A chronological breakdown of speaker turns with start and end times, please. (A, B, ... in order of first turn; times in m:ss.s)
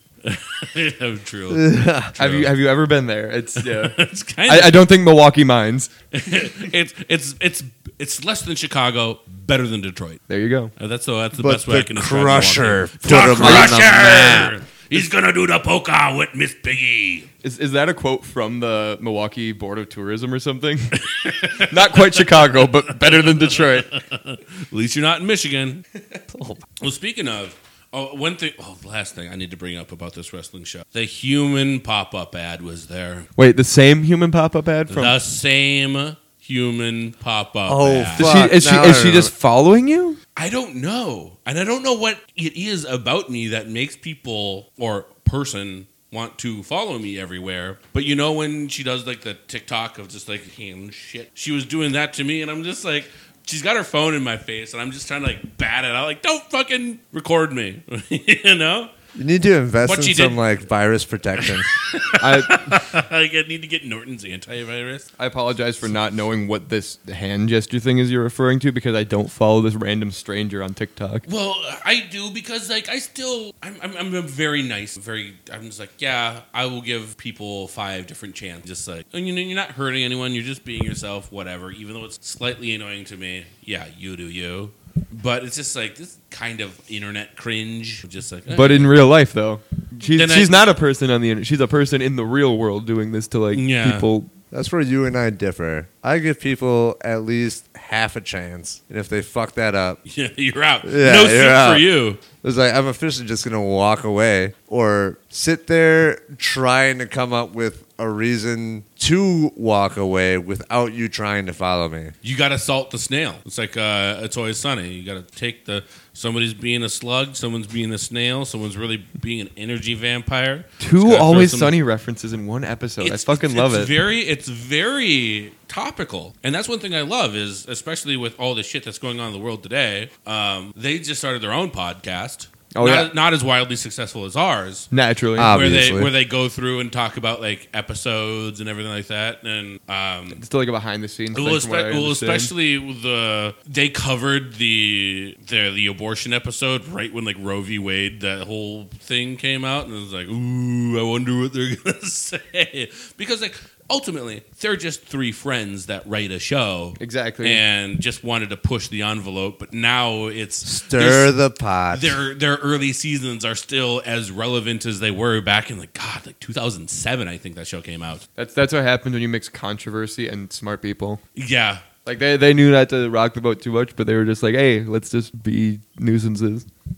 0:00.2-0:02.5 A
0:01.5-0:02.2 B
0:02.2-0:05.9 C
0:03.6-0:04.8 A
0:06.1-0:10.2 A
0:10.3-0:10.7 C
0:10.8-0:17.3 A
0:11.4-0:14.5 B
0:13.4-0:13.8 C
0:17.4-0:23.9 C
0:21.0-0:25.8 A
0:26.3-0:26.6 B
0:26.8-0:33.3 A
0:33.4-0:35.1 C
0:34.9-0:38.4 A
0:37.7-0:39.3 B
0:38.2-0:40.2 C
0:40.4-0:58.9 A
0:59.2-1:01.7 B
0:59.8-1:00.4 A
1:01.4-1:05.1 A
1:02.2-1:02.8 C
1:05.2-1:11.2 C
1:11.3-1:28.9 A
1:28.5-1:34.3 C
1:30.1-1:30.7 A
1:33.5-1:34.1 A
1:34.5-1:40.0 B
1:40.0-1:42.2 A
1:40.8-1:41.8 B
1:42.4-1:52.1 B
1:52.2-2:01.7 A
2:00.8-2:03.9 C
2:03.0-2:20.4 A
2:12.7-2:13.1 C
2:14.9-2:15.6 C
2:15.4-2:16.1 B
2:20.3-2:22.5 C
2:21.3-2:41.3 A
2:37.0-2:37.6 C
2:40.6-2:42.2 B
2:41.9-2:48.2 A
2:48.4-2:51.2 C
2:51.4-2:51.8 A
2:52.0-2:56.7 C